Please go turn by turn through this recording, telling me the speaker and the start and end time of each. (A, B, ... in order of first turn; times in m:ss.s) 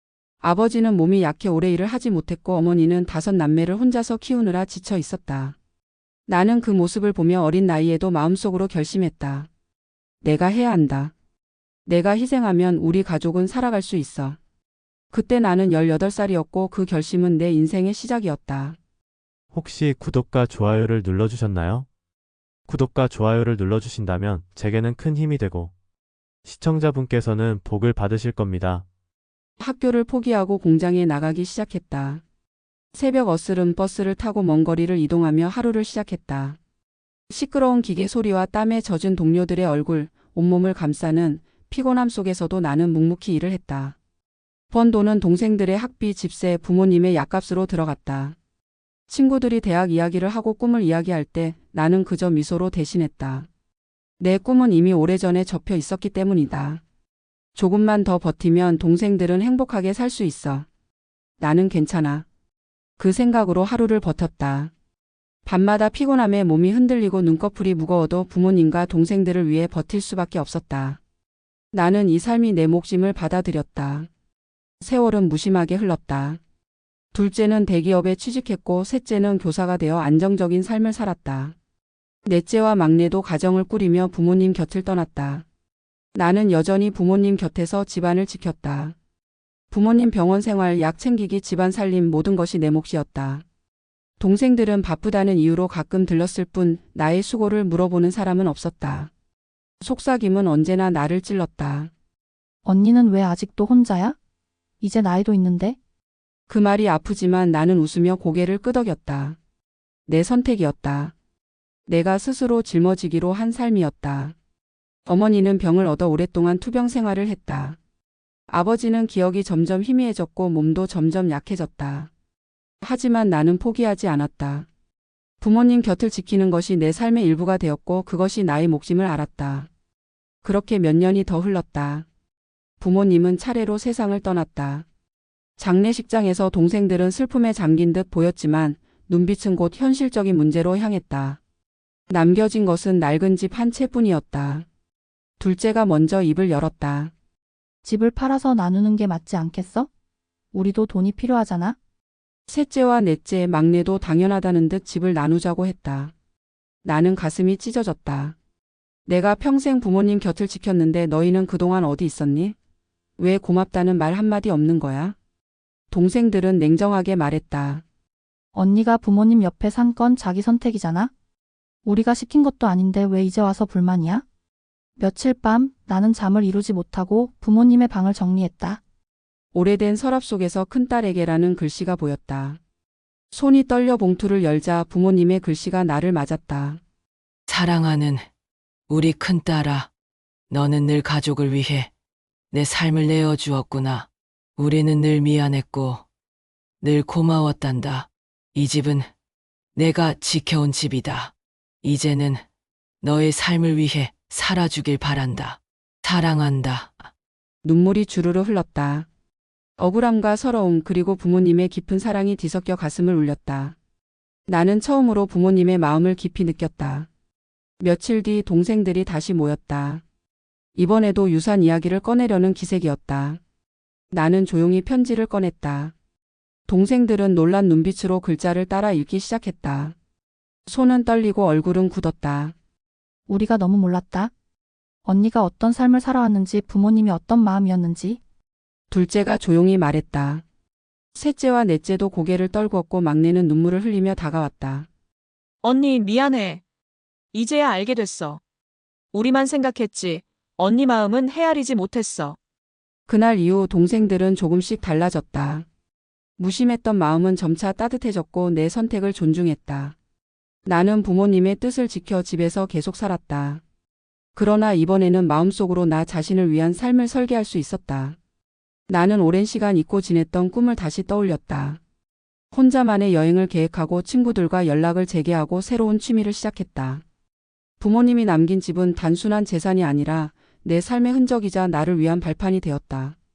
0:00.4-0:05.6 A
0:06.3-0:09.5 A
0:10.2-0:11.1 A
0:11.8-0:14.4 A
0:15.1-0:18.8 A
0:19.5-0:21.9 B
0:22.7-0:25.7 B
0:26.4-0:28.8 B
0:29.6-0:32.2 A
0:32.9-0:36.6 A
0:37.3-0:44.0 A
0:44.7-0:48.4 A
0:49.1-0:53.5 A
0:54.2-0:56.8 A
0:57.5-1:00.7 A
1:01.4-1:02.2 A
1:03.0-1:04.7 A
1:05.4-1:11.0 A
1:11.7-1:14.1 A
1:14.8-1:16.4 A
1:17.1-1:21.5 A
1:22.2-1:25.4 A
1:26.1-1:29.0 A
1:29.7-1:33.4 A
1:34.2-1:39.1 A
1:39.8-1:41.9 A
1:42.6-1:44.2 C
1:44.8-1:45.8 C
1:46.5-1:49.4 A
1:50.1-1:51.1 A
1:51.9-1:54.3 A
1:55.1-1:57.8 A
1:58.5-2:02.1 A
2:02.8-2:04.7 A
2:05.4-2:09.7 A
2:10.4-2:12.0 A
2:12.8-2:14.8 A
2:15.6-2:21.4 A
2:22.1-2:24.7 A
2:25.4-2:27.1 A
2:27.8-2:29.9 C
2:30.5-2:31.8 C
2:32.5-2:36.1 A
2:36.8-2:38.4 A
2:39.1-2:42.6 A
2:43.2-2:45.1 A
2:45.9-2:47.8 A
2:48.5-2:51.1 C
2:51.8-2:54.2 C
2:55.0-2:58.8 C
2:59.5-3:02.6 A
3:03.3-3:06.8 A
3:07.5-3:08.3 D
3:08.9-3:09.9 D
3:10.5-3:11.9 D
3:12.5-3:16.0 D
3:16.8-3:19.1 D
3:19.8-3:22.4 D
3:23.0-3:27.1 D
3:27.6-3:29.1 A
3:29.8-3:33.8 A
3:34.5-3:37.1 A
3:37.8-3:40.0 A
3:40.8-3:43.4 A
3:44.1-3:45.9 A
3:46.7-3:49.9 A
3:50.7-3:52.5 A
3:53.3-3:54.3 C
3:55.0-3:58.2 C
3:58.9-4:00.4 A
4:01.1-4:04.9 A
4:05.6-4:06.6 E
4:07.3-4:08.4 E
4:09.1-4:12.4 E
4:13.1-4:15.6 A
4:16.4-4:20.0 A
4:20.6-4:23.6 A
4:24.3-4:28.2 A
4:28.9-4:31.8 A
4:32.5-4:37.0 A
4:37.8-4:43.2 A